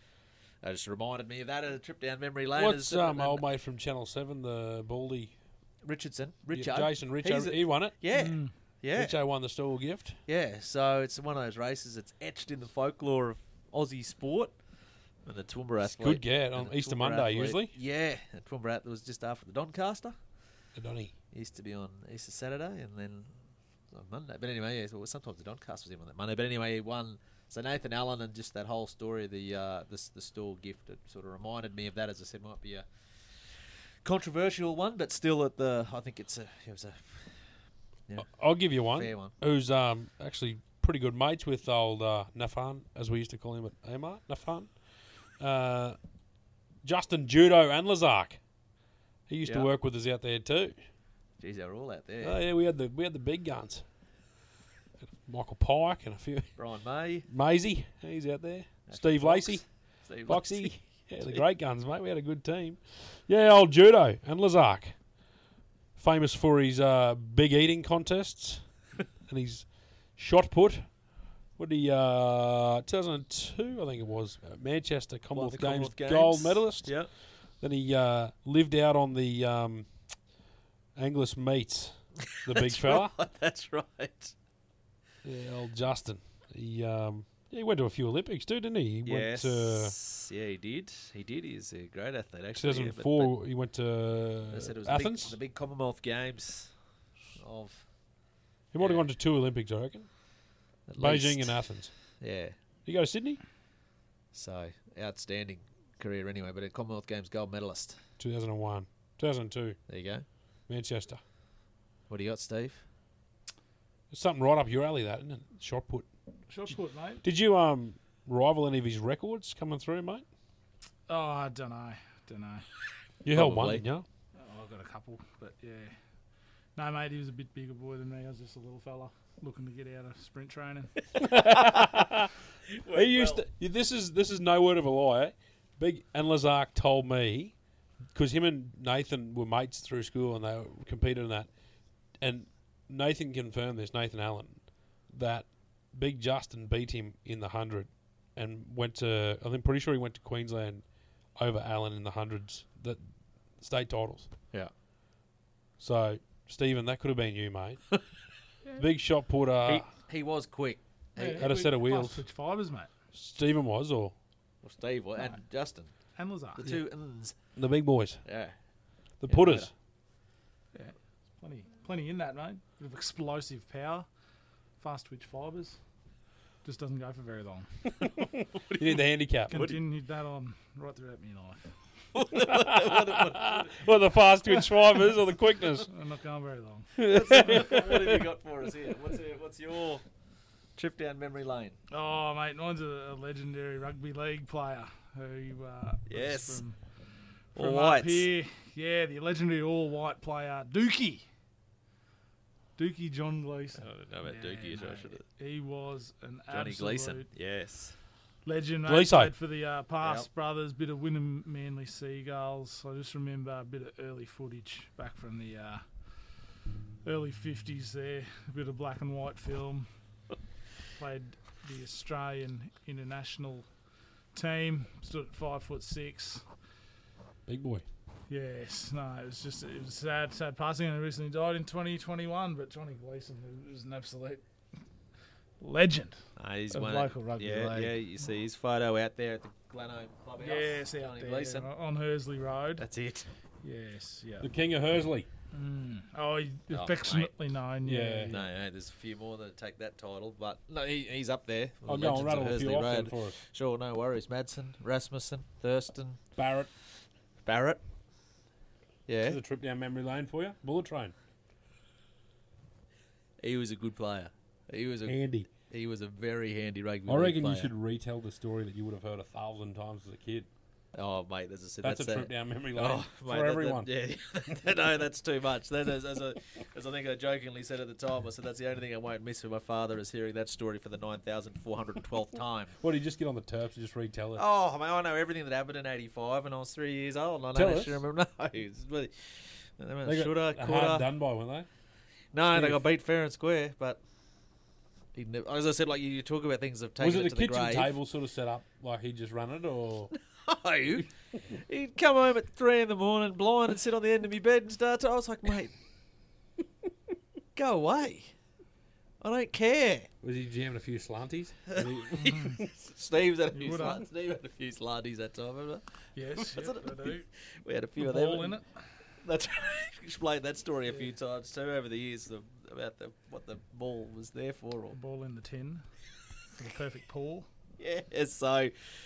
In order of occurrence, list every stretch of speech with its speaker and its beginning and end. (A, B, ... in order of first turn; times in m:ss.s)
0:00.6-0:03.4 A
0:02.6-0:05.4 B
0:05.8-0:09.1 A
0:06.5-0:08.0 B
0:08.1-0:08.5 C
0:08.9-0:10.2 B
0:10.3-0:14.5 A
0:15.2-0:20.2 A
0:15.8-0:17.8 B
0:20.7-0:21.1 B
0:21.3-0:23.3 A
0:23.9-0:32.9 A
0:34.0-0:37.4 A
0:38.2-0:44.7 B
0:38.8-0:39.3 A
0:45.4-0:46.0 B
0:46.8-0:48.4 B
0:49.3-0:50.8 B
0:49.4-0:49.7 A
0:51.4-0:52.4 A
0:52.2-0:53.8 B
0:55.1-0:56.6 B
0:56.6-0:57.2 A
0:57.3-0:59.6 B
0:58.9-1:00.7 A
1:00.2-1:05.0 B
1:06.0-1:08.7 B
1:09.3-1:11.0 B
1:11.6-1:17.0 B
1:15.3-1:17.1 A
1:17.6-1:19.9 B
1:21.0-1:23.1 B
1:22.4-1:24.3 A
1:25.2-1:30.0 B
1:29.0-1:33.3 A
1:32.6-1:35.4 B
1:34.5-1:36.7 A
1:37.4-1:37.8 A
1:38.7-1:40.1 B
1:38.8-1:39.0 A
1:40.9-1:41.6 A
1:41.0-1:41.9 B
1:42.2-1:42.5 A
1:42.8-1:43.4 B
1:44.3-1:48.0 A
1:48.2-1:49.8 B
1:49.9-1:50.2 A
1:50.7-1:51.2 B
1:52.1-1:52.8 A
1:54.1-1:56.1 B
1:56.5-1:57.2 C
1:57.2-2:00.2 B
2:01.1-2:02.6 C
2:03.2-2:04.0 B
2:03.3-2:03.8 A
2:04.4-2:05.9 C
2:06.8-2:10.9 C
2:11.2-2:12.3 B
2:11.2-2:11.8 A
2:12.7-2:13.4 A
2:12.9-2:17.5 B
2:18.1-2:21.5 B
2:22.2-2:30.8 B
2:31.4-2:33.0 B
2:33.6-2:34.3 B
2:35.8-2:37.9 B
2:38.7-2:39.9 B
2:39.6-2:41.5 A
2:41.2-2:42.9 C
2:41.4-2:42.2 B
2:43.1-2:44.1 B
2:44.6-2:45.9 A
2:46.2-2:46.7 C
2:46.5-2:47.3 A
2:47.6-2:48.2 B
2:48.2-2:48.5 A
2:49.2-2:49.7 B
2:49.3-2:49.7 A
2:50.7-2:54.1 C
2:54.8-2:55.8 C
2:56.6-2:57.8 C
2:58.0-2:59.8 B
2:58.6-2:58.9 A
2:59.5-3:01.7 C
2:59.5-2:59.8 A
3:02.1-3:03.8 A
3:02.4-3:05.9 B
3:05.9-3:07.6 C
3:07.0-3:08.2 B
3:07.0-3:10.0 A
3:10.8-3:11.8 A
3:11.9-3:16.8 C
3:16.1-3:16.6 A
3:17.5-3:21.3 C
3:17.6-3:18.3 A
3:22.8-3:27.3 C
3:23.8-3:25.2 A
3:26.5-3:27.9 A
3:28.4-3:35.8 C
3:28.9-3:29.3 B
3:30.0-3:30.3 A
3:37.0-3:39.9 C
3:41.0-3:43.7 C
3:44.3-3:46.4 C
3:47.5-3:47.8 B
3:48.3-3:54.4 C
3:55.6-3:58.0 C
3:56.4-4:01.7 A
4:00.4-4:02.8 C
4:02.8-4:03.3 A
4:03.6-4:04.5 C
4:04.4-4:05.3 B
4:05.5-4:08.5 C
4:06.7-4:07.3 A
4:07.8-4:08.3 B
4:08.3-4:16.2 A
4:11.8-4:13.4 B
4:16.4-4:16.7 B
4:17.4-4:17.8 A
4:19.1-4:19.4 A
4:19.2-4:21.1 B
4:23.4-4:27.7 A
4:25.0-4:25.5 B
4:27.1-4:30.5 B
4:30.9-4:42.8 A
4:31.8-4:33.9 B
4:42.8-4:44.4 B
4:44.4-4:51.1 A
4:47.5-4:48.0 B
4:50.0-4:51.7 B
4:52.3-4:54.0 A
4:52.5-4:52.8 B
4:55.1-4:57.9 A
4:57.0-5:00.1 B
5:00.4-5:05.7 A
5:07.6-5:08.3 A
5:09.2-5:10.1 A
5:10.2-5:12.6 B
5:11.7-5:15.8 A
5:13.5-5:14.0 C
5:16.1-5:17.3 C
5:16.4-5:18.6 A
5:18.0-5:18.6 C
5:19.2-5:25.0 A
5:24.9-5:25.8 C
5:26.6-5:27.5 C
5:27.8-5:28.7 A